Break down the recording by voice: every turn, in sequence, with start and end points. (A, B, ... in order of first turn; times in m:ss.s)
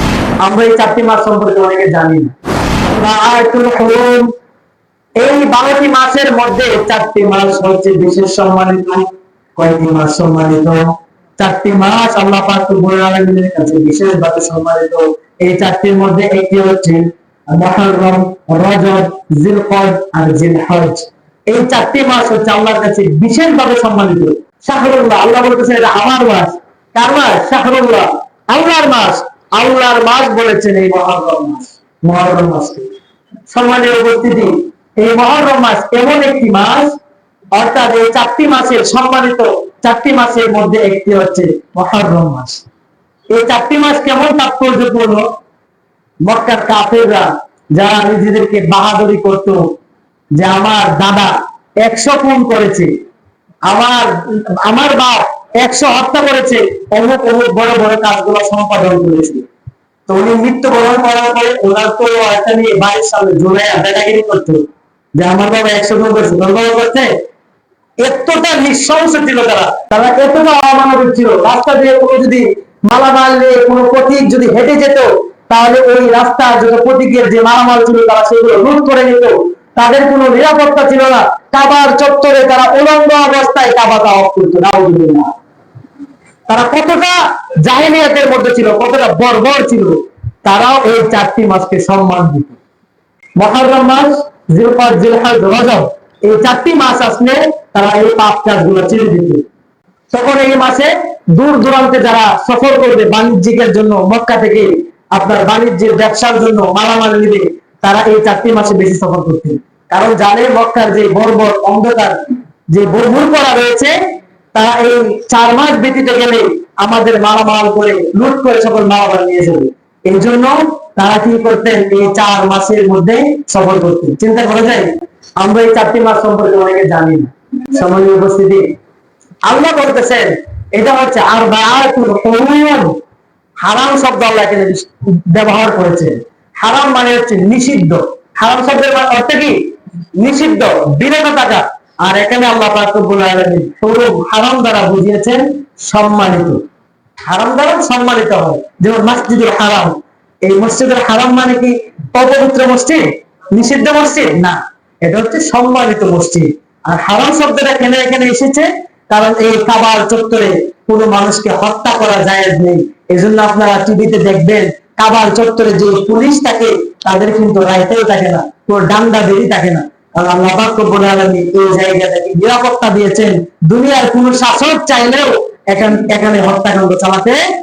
0:00.4-0:04.3 A
0:05.2-0:32.9 A
0:33.5-0:37.0 A
0:37.5-0:42.6 A
0:43.3-0:45.3 A
0:46.2-0:49.7 A
0:50.3-0:52.9 A
0:53.7-0:59.5 A
1:00.1-1:07.1 A
1:08.0-1:25.3 A
1:26.5-1:32.6 A
1:33.4-1:39.4 A
1:40.1-1:54.0 A
1:54.5-2:08.6 A
2:09.4-2:13.0 A
2:13.6-2:19.6 A
2:20.2-2:26.6 A
2:27.2-2:57.4 A